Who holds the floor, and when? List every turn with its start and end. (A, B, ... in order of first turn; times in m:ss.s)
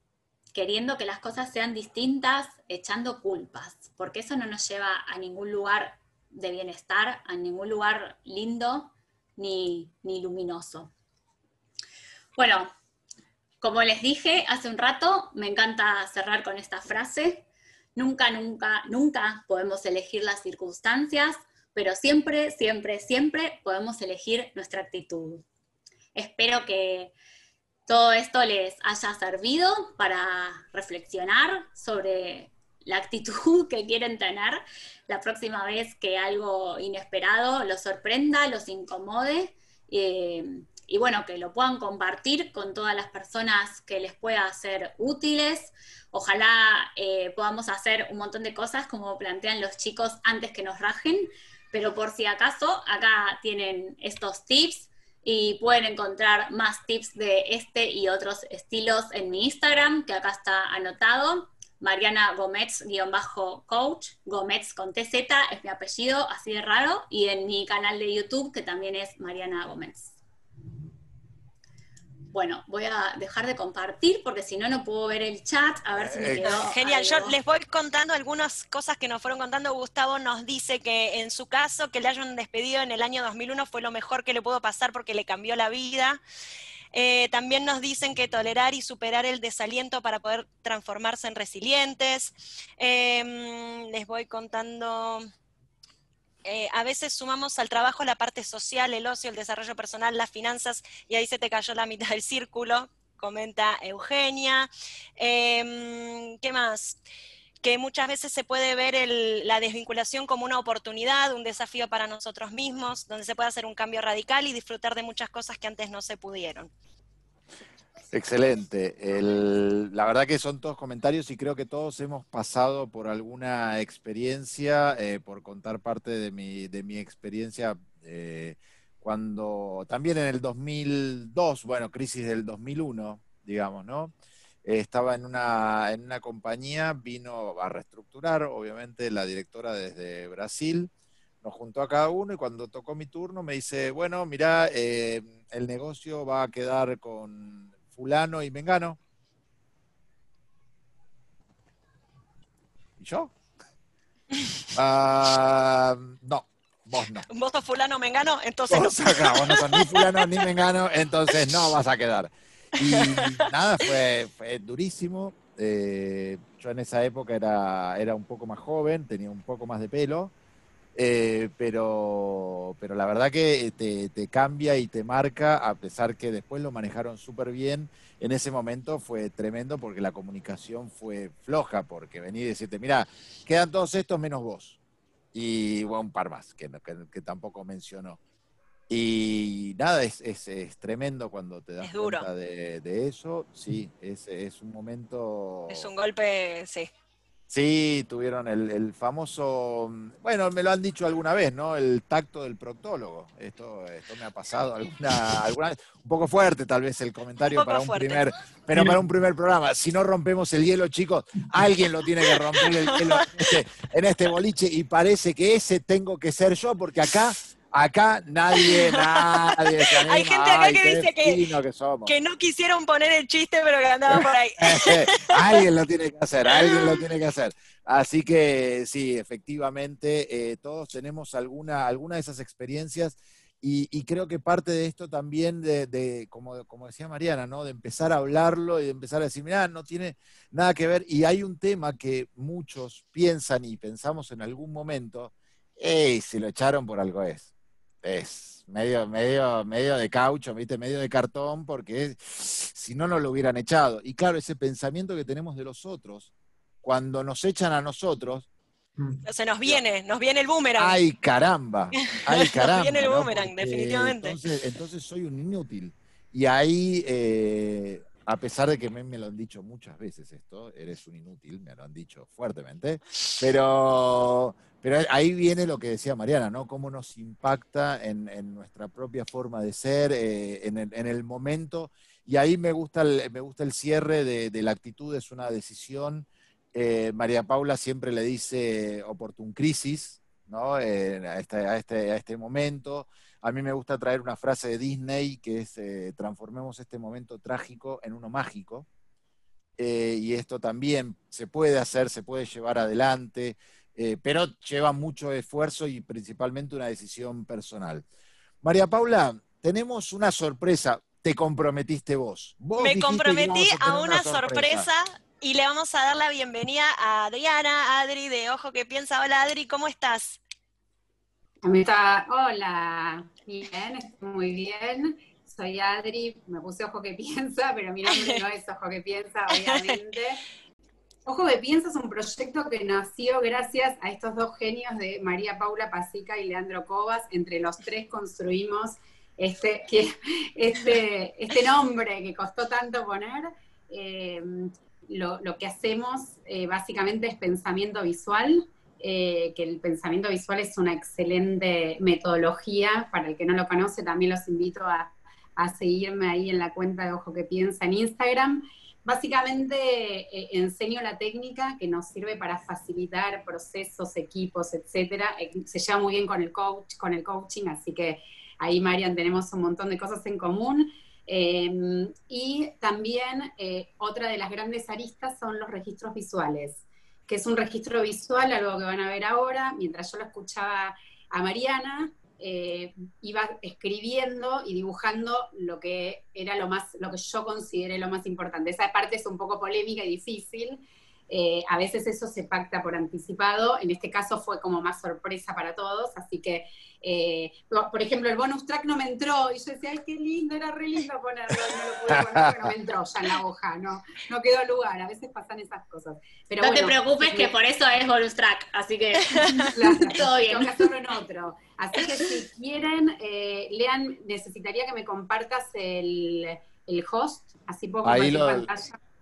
0:00.5-0:10.9 A
0:12.4-0:12.7 A
0:13.6-0:25.4 A
0:26.2-0:27.1 A
0:27.9-1:10.2 A
1:12.3-1:17.4 A
1:15.9-1:16.6 B
1:16.4-1:26.2 C
1:26.9-1:35.3 C
1:36.4-1:47.0 C
1:47.6-1:56.7 C
1:58.1-2:14.1 B
2:14.6-2:20.9 B
2:21.4-2:29.0 B
2:33.0-2:33.3 B
2:34.8-2:37.3 B
2:37.3-2:40.1 C
2:38.7-2:50.3 B
2:42.9-2:43.4 C
2:51.0-3:04.8 B
3:05.3-3:08.2 B
3:08.9-3:15.9 B
3:11.8-3:12.3 C
3:15.7-3:16.9 C
3:17.5-3:42.2 B
3:27.5-3:28.2 C
3:32.3-3:32.7 C
3:38.6-3:41.5 C
3:42.1-3:45.6 C
3:44.1-4:07.5 B
3:46.5-3:47.0 C
4:08.0-4:16.3 B
4:16.8-4:18.5 B
4:19.2-4:21.0 C
4:20.8-4:58.9 B
4:22.0-4:24.4 C
4:59.8-5:08.0 B
5:08.6-5:14.9 B
5:12.8-5:20.4 C
5:21.6-5:30.4 D
5:28.1-5:28.4 C
5:29.5-5:30.0 C
5:31.3-6:47.5 D
6:46.6-6:50.9 A
6:49.4-6:49.7 C
6:49.6-6:59.0 D
6:58.0-6:58.7 B